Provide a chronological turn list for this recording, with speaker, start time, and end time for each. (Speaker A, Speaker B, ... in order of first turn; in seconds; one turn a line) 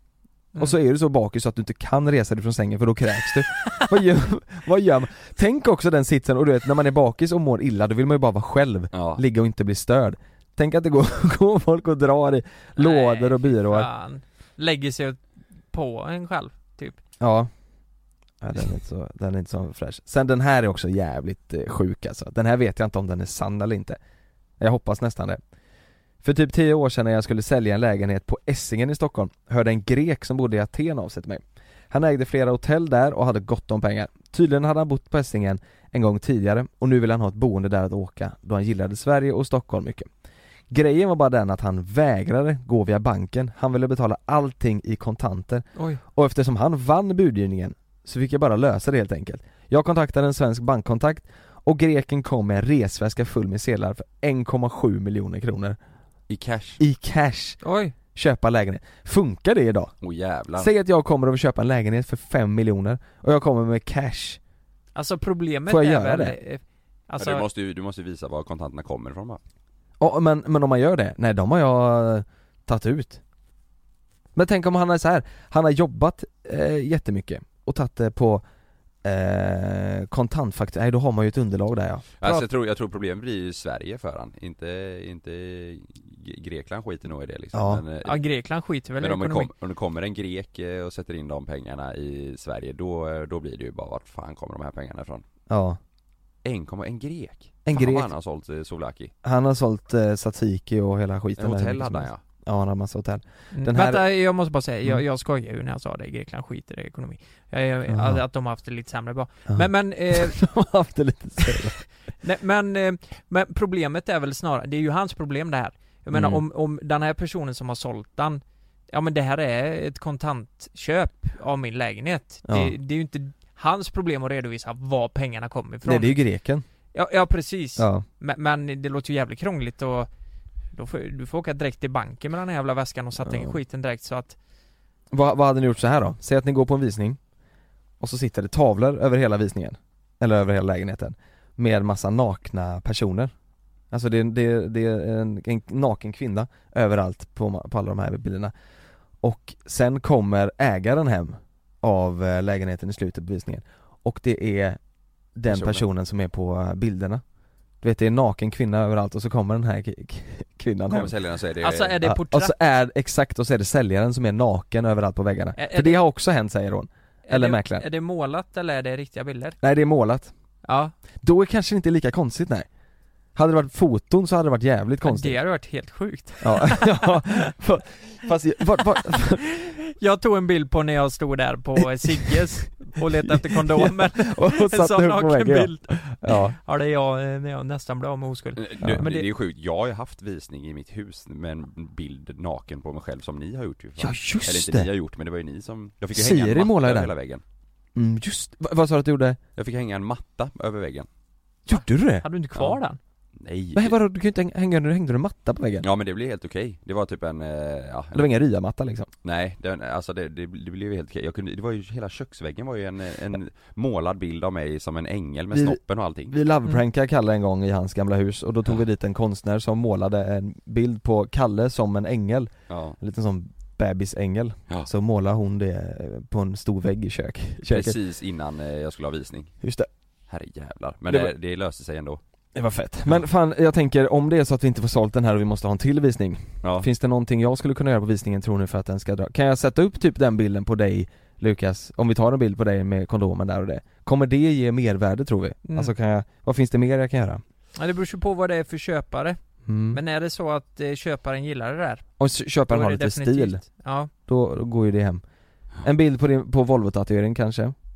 Speaker A: 0.6-13.9
Speaker B: 8.9-9.2
Speaker C: 12.8-17.0
Speaker A: 17.2-17.5
Speaker A: 18.4-24.0
Speaker A: 24.6-25.4
Speaker A: 26.2-40.1
Speaker A: 40.7-55.8
Speaker C: 45.8-46.0
Speaker B: 56.3-56.8
Speaker A: 56.8-57.6
Speaker C: 57.6-57.9
Speaker A: 58.1-59.9
Speaker B: 60.0-60.7
Speaker A: 60.5-64.4
Speaker C: 64.9-67.4
Speaker A: 65.7-66.3
Speaker B: 67.2-69.4
Speaker A: 70.0-73.2
Speaker A: 74.3-78.4
Speaker A: 79.0-82.4
Speaker B: 82.2-88.2
Speaker A: 87.5-87.8
Speaker C: 88.0-89.5
Speaker B: 89.0-95.2
Speaker A: 95.5-95.8
Speaker B: 96.4-99.1
Speaker A: 97.7-98.1
Speaker A: 99.2-104.0
Speaker B: 101.4-102.2
Speaker C: 103.5-110.5
Speaker A: 107.9-108.2
Speaker A: 109.5-111.8
Speaker C: 112.2-126.2
Speaker A: 116.1-116.4
Speaker A: 122.5-122.7
Speaker A: 125.8-126.6
Speaker C: 126.9-130.1
Speaker A: 127.8-128.0
Speaker C: 130.7-134.3
Speaker A: 133.2-133.6
Speaker A: 135.1-137.2
Speaker A: 138.0-143.3
Speaker A: 143.9-148.5
Speaker A: 149.2-154.8
Speaker A: 155.3-157.2
Speaker B: 155.5-155.8
Speaker A: 157.8-161.1
Speaker B: 160.9-161.9
Speaker C: 161.6-162.5
Speaker A: 162.0-167.8
Speaker C: 165.6-166.0
Speaker C: 167.3-169.6
Speaker A: 169.6-170.3
Speaker C: 170.6-170.9
Speaker A: 171.2-172.7
Speaker A: 173.3-175.4
Speaker C: 175.1-177.5
Speaker A: 176.4-179.4
Speaker C: 179.5-189.3
Speaker A: 181.9-182.4
Speaker A: 183.0-186.6
Speaker B: 188.6-197.4
Speaker A: 194.0-194.9
Speaker A: 196.1-197.1
Speaker A: 197.9-199.4
Speaker B: 199.6-201.1
Speaker A: 201.7-202.2
Speaker C: 201.7-203.0
Speaker B: 203.4-203.9
Speaker A: 203.7-205.9
Speaker B: 205.8-208.2
Speaker A: 208.1-209.1
Speaker B: 209.2-216.4
Speaker A: 215.5-215.8
Speaker A: 216.3-227.9
Speaker B: 222.7-223.0
Speaker B: 227.7-229.5
Speaker A: 229.6-229.9
Speaker B: 230.3-232.2
Speaker A: 232.5-247.4
Speaker C: 245.6-245.9
Speaker C: 247.8-249.4
Speaker A: 249.7-250.0
Speaker C: 249.9-252.0
Speaker A: 252.2-253.6
Speaker C: 252.7-254.1
Speaker A: 254.2-255.2
Speaker A: 255.8-257.7